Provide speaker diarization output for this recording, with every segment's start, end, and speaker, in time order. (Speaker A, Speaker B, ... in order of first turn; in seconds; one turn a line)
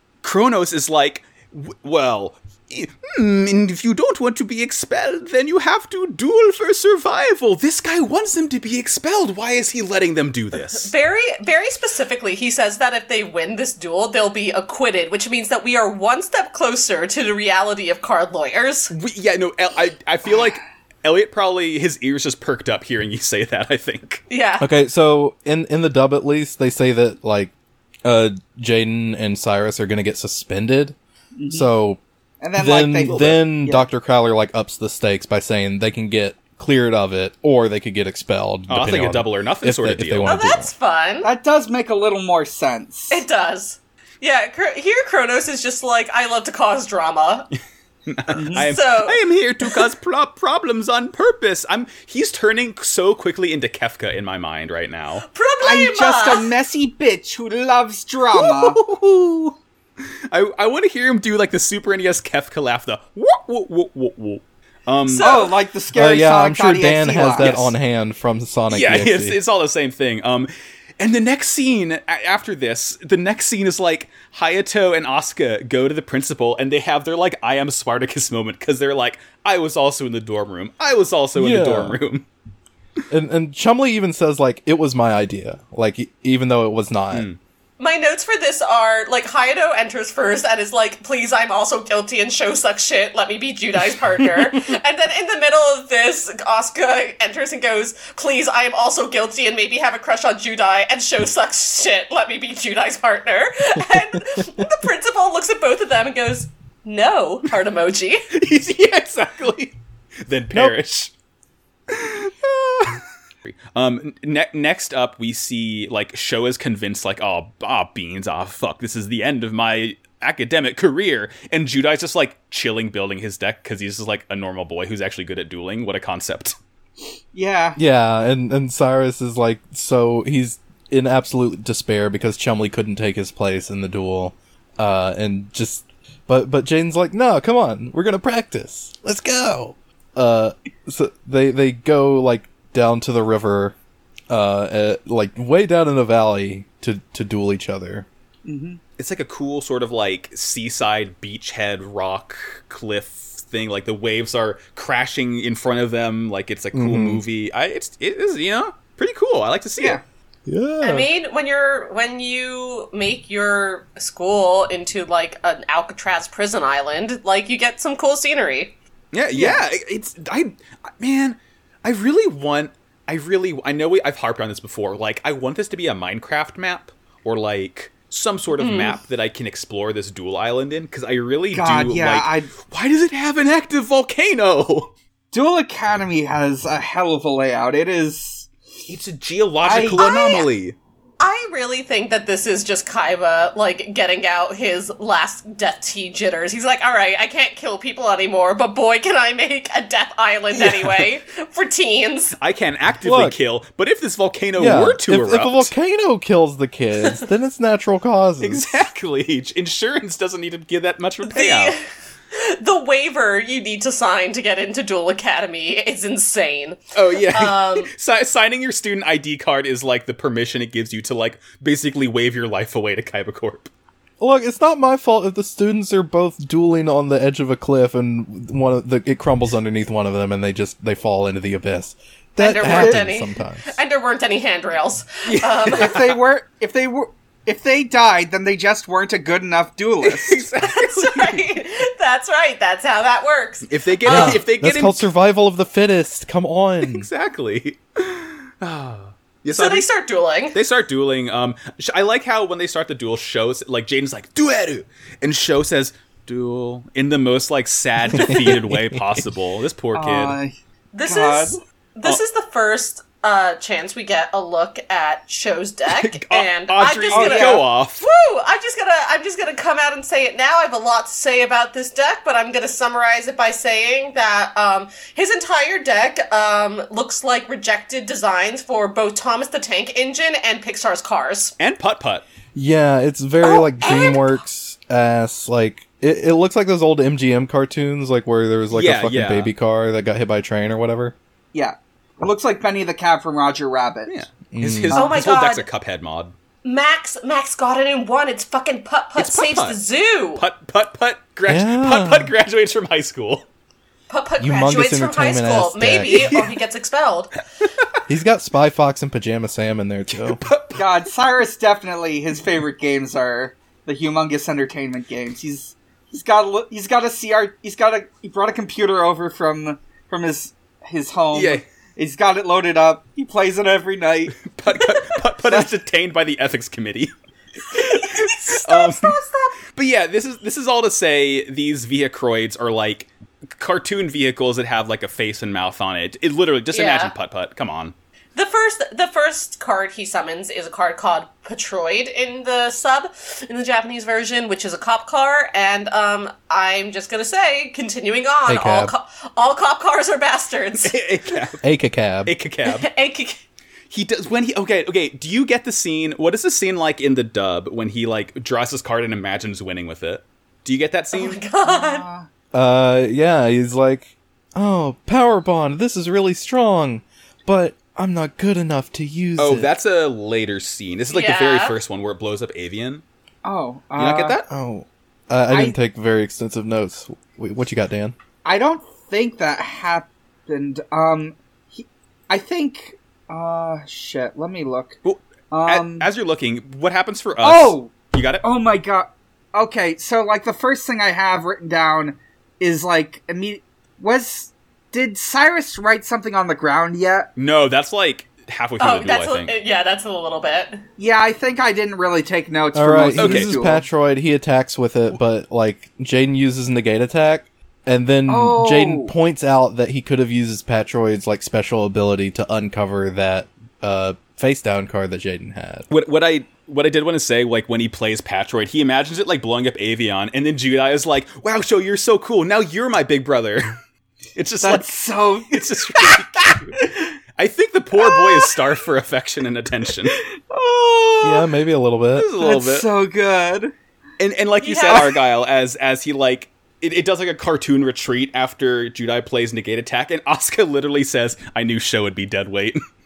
Speaker A: 0.2-10.9
Speaker B: 10.7-18.9
Speaker A: 18.9-24.2
Speaker B: 24.3-24.7
Speaker C: 24.6-27.5
Speaker C: 28.1-31.0
Speaker D: 31.4-31.7
Speaker C: 31.5-32.0
Speaker D: 32.4-33.9
Speaker C: 32.5-40.7
Speaker A: 33.0-33.4
Speaker A: 38.7-40.3
Speaker B: 40.2-41.3
Speaker D: 41.2-43.2
Speaker B: 43.1-47.5
Speaker A: 48.1-55.2
Speaker D: 48.3-48.7
Speaker B: 48.5-49.8
Speaker B: 55.2-56.5
Speaker D: 55.6-58.8
Speaker A: 58.3-59.6
Speaker A: 60.3-65.5
Speaker B: 65.1-65.5
Speaker D: 65.1-67.6
Speaker C: 65.9-69.4
Speaker A: 67.2-67.7
Speaker A: 68.7-82.3
Speaker C: 81.3-82.0
Speaker C: 83.1-87.3
Speaker A: 87.1-87.4
Speaker B: 87.8-108.3
Speaker A: 108.3-111.1
Speaker A: 111.9-126.5
Speaker D: 127.3-127.8
Speaker C: 127.8-143.8
Speaker C: 144.3-148.1
Speaker D: 148.5-148.8
Speaker A: 149.0-160.0
Speaker C: 156.7-157.2
Speaker C: 160.5-161.1
Speaker B: 160.8-168.7
Speaker A: 169.1-184.9
Speaker D: 169.3-169.6
Speaker B: 178.6-179.0
Speaker D: 181.5-182.5
Speaker D: 185.3-188.5
Speaker A: 188.9-190.8
Speaker D: 189.6-190.2
Speaker B: 190.0-190.5
Speaker B: 191.2-202.3
Speaker A: 200.6-201.1
Speaker A: 202.4-205.7
Speaker C: 203.0-203.4
Speaker C: 204.6-208.8
Speaker A: 208.4-211.8
Speaker B: 211.2-217.9
Speaker A: 216.9-223.7
Speaker C: 224.2-233.8
Speaker B: 232.4-236.0
Speaker D: 232.7-233.0
Speaker A: 235.2-236.2
Speaker D: 235.7-240.4
Speaker A: 240.0-241.5
Speaker B: 240.6-244.4
Speaker A: 243.7-245.1
Speaker C: 244.1-247.1
Speaker A: 246.8-249.9
Speaker B: 249.5-250.6
Speaker A: 250.5-260.4
Speaker C: 258.1-259.0
Speaker D: 259.9-260.5
Speaker B: 260.9-281.6
Speaker D: 261.0-261.6
Speaker A: 265.9-268.1
Speaker D: 267.1-267.7
Speaker A: 281.6-282.2
Speaker C: 282.6-291.1
Speaker B: 283.4-284.4
Speaker A: 288.7-289.5
Speaker D: 291.5-294.2
Speaker A: 294.1-296.4
Speaker C: 294.5-295.0
Speaker B: 294.9-295.7
Speaker D: 294.9-295.2
Speaker B: 296.6-300.4
Speaker A: 299.2-299.8
Speaker A: 300.4-303.4
Speaker C: 301.5-302.3
Speaker B: 304.1-307.3
Speaker C: 304.4-306.4
Speaker A: 306.1-306.6
Speaker C: 308.1-310.4
Speaker A: 310.1-310.8
Speaker D: 310.8-324.4
Speaker A: 321.3-321.6
Speaker A: 324.4-327.1
Speaker B: 324.7-325.2
Speaker B: 327.7-329.6
Speaker A: 327.7-329.1
Speaker A: 329.7-337.9
Speaker B: 336.7-337.1
Speaker B: 338.4-351.0
Speaker C: 348.5-348.9
Speaker A: 350.8-351.6
Speaker C: 351.6-352.3
Speaker A: 352.2-352.9
Speaker B: 352.7-353.4
Speaker A: 353.9-361.4
Speaker B: 361.1-362.1
Speaker D: 361.6-362.3
Speaker C: 362.5-369.7
Speaker A: 369.4-373.0
Speaker B: 371.1-371.8
Speaker D: 373.4-374.4
Speaker A: 374.0-374.5
Speaker C: 374.5-378.1
Speaker D: 375.5-375.8
Speaker D: 378.4-385.0
Speaker A: 385.0-388.4
Speaker D: 385.5-386.1
Speaker D: 387.4-397.3
Speaker A: 397.4-399.5
Speaker B: 398.8-400.8
Speaker D: 401.0-403.9
Speaker C: 402.7-415.9
Speaker A: 403.1-403.6
Speaker D: 408.3-409.1
Speaker A: 415.9-423.8
Speaker A: 424.4-425.0
Speaker D: 424.6-426.2
Speaker A: 425.5-426.8
Speaker A: 427.4-430.2
Speaker D: 430.1-431.5
Speaker C: 431.2-432.3
Speaker A: 432.1-432.9
Speaker D: 432.4-433.7
Speaker A: 434.2-442.8
Speaker B: 434.6-435.1